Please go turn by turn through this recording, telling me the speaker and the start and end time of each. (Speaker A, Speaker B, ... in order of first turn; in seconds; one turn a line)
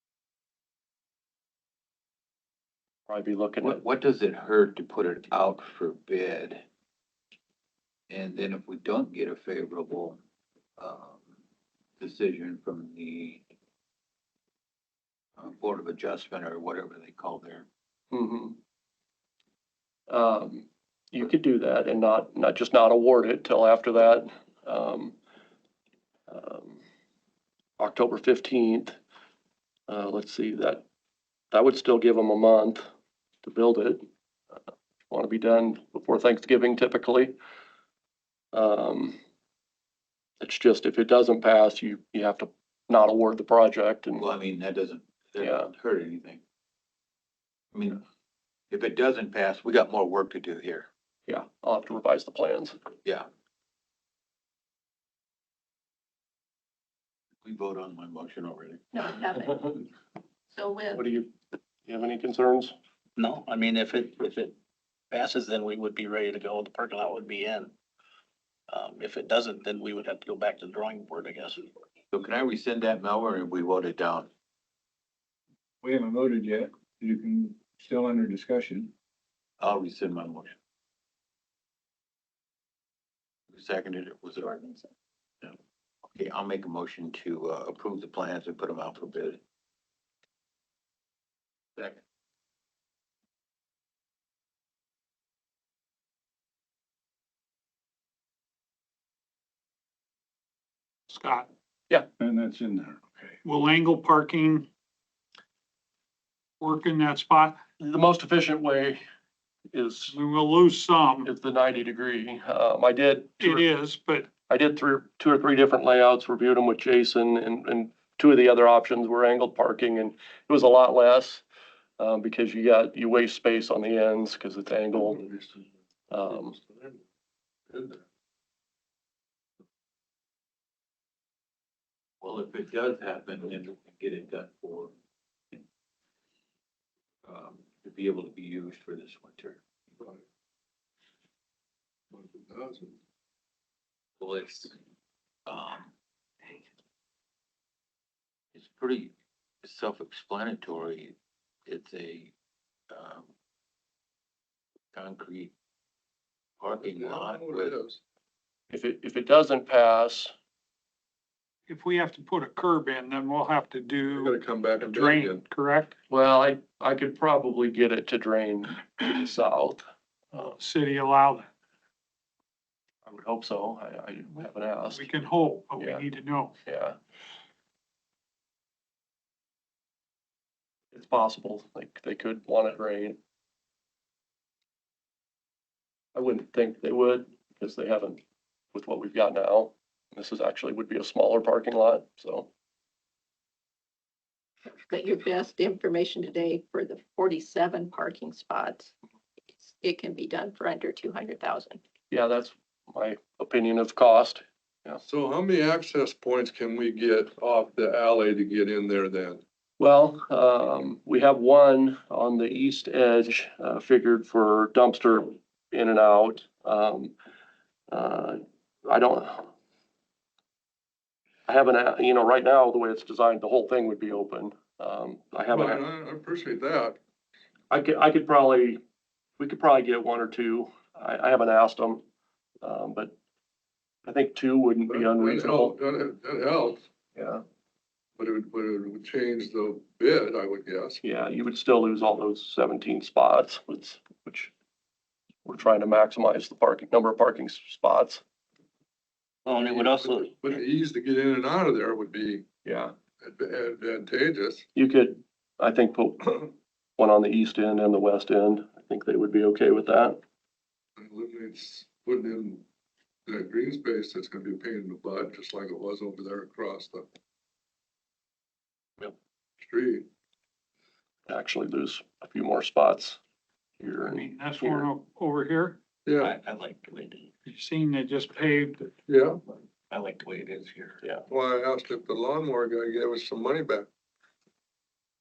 Speaker A: 3.1-3.8
Speaker B: 3.6-6.6
Speaker B: 8.1-10.2
Speaker B: 10.8-11.2
Speaker B: 12.0-13.4
Speaker B: 15.4-17.6
Speaker A: 18.1-18.6
Speaker A: 20.1-25.1
Speaker A: 26.3-26.8
Speaker A: 27.8-29.0
Speaker A: 29.9-30.8
Speaker A: 31.5-32.8
Speaker A: 33.4-34.0
Speaker A: 35.1-37.3
Speaker A: 38.5-39.2
Speaker A: 40.4-44.3
Speaker B: 44.2-46.4
Speaker A: 45.4-45.7
Speaker B: 47.7-48.0
Speaker B: 48.7-50.9
Speaker A: 51.3-52.8
Speaker B: 57.4-58.8
Speaker C: 58.9-59.8
Speaker C: 60.5-61.0
Speaker A: 61.0-61.3
Speaker A: 61.8-62.7
Speaker D: 63.2-64.5
Speaker D: 65.1-67.7
Speaker D: 68.7-71.6
Speaker B: 72.1-74.3
Speaker E: 75.8-78.9
Speaker B: 79.6-80.5
Speaker B: 83.5-84.5
Speaker C: 84.4-84.9
Speaker B: 86.1-89.4
Speaker F: 101.1-101.5
Speaker E: 102.2-103.4
Speaker F: 103.4-104.7
Speaker F: 106.6-107.6
Speaker A: 107.8-109.0
Speaker A: 109.7-110.2
Speaker F: 110.1-111.3
Speaker A: 111.2-113.7
Speaker F: 113.4-114.3
Speaker A: 114.5-121.4
Speaker A: 122.0-125.3
Speaker G: 124.9-125.6
Speaker A: 126.1-126.5
Speaker G: 126.3-127.0
Speaker G: 127.7-128.0
Speaker B: 132.2-134.9
Speaker B: 137.2-139.6
Speaker G: 142.1-142.9
Speaker B: 144.2-144.8
Speaker B: 145.4-145.9
Speaker B: 148.5-151.1
Speaker B: 151.7-152.3
Speaker B: 152.9-153.3
Speaker B: 154.9-155.5
Speaker B: 156.6-157.8
Speaker G: 156.8-158.0
Speaker A: 158.7-160.3
Speaker F: 161.7-165.9
Speaker G: 164.1-165.4
Speaker A: 166.1-169.8
Speaker F: 170.3-171.5
Speaker A: 173.0-175.1
Speaker F: 174.9-176.6
Speaker A: 175.8-176.1
Speaker A: 176.6-176.9
Speaker A: 180.9-183.2
Speaker A: 186.1-188.2
Speaker A: 188.7-192.5
Speaker C: 194.8-198.9
Speaker C: 199.5-201.8
Speaker A: 202.1-205.0
Speaker G: 205.0-209.4
Speaker A: 209.8-217.1
Speaker A: 217.9-219.5
Speaker A: 221.5-225.8
Speaker G: 225.5-227.0
Speaker A: 227.7-228.8
Speaker A: 229.4-232.0
Speaker A: 232.6-233.1
Speaker A: 234.1-235.7
Speaker G: 234.9-236.8
Speaker A: 237.2-237.4
Speaker G: 238.2-241.0
Speaker A: 241.0-244.5
Speaker A: 245.4-248.2
Speaker D: 249.4-250.6
Speaker G: 249.5-252.4
Speaker A: 252.6-252.9
Speaker G: 253.2-254.6
Speaker A: 254.7-260.2
Speaker G: 261.0-262.6
Speaker G: 263.2-267.0
Speaker G: 269.6-270.1
Speaker A: 271.3-273.2
Speaker A: 273.8-274.9
Speaker F: 274.1-275.8
Speaker G: 276.0-276.3
Speaker D: 276.2-277.3
Speaker F: 277.4-278.9
Speaker G: 279.1-279.4
Speaker D: 279.9-281.0
Speaker G: 281.3-283.9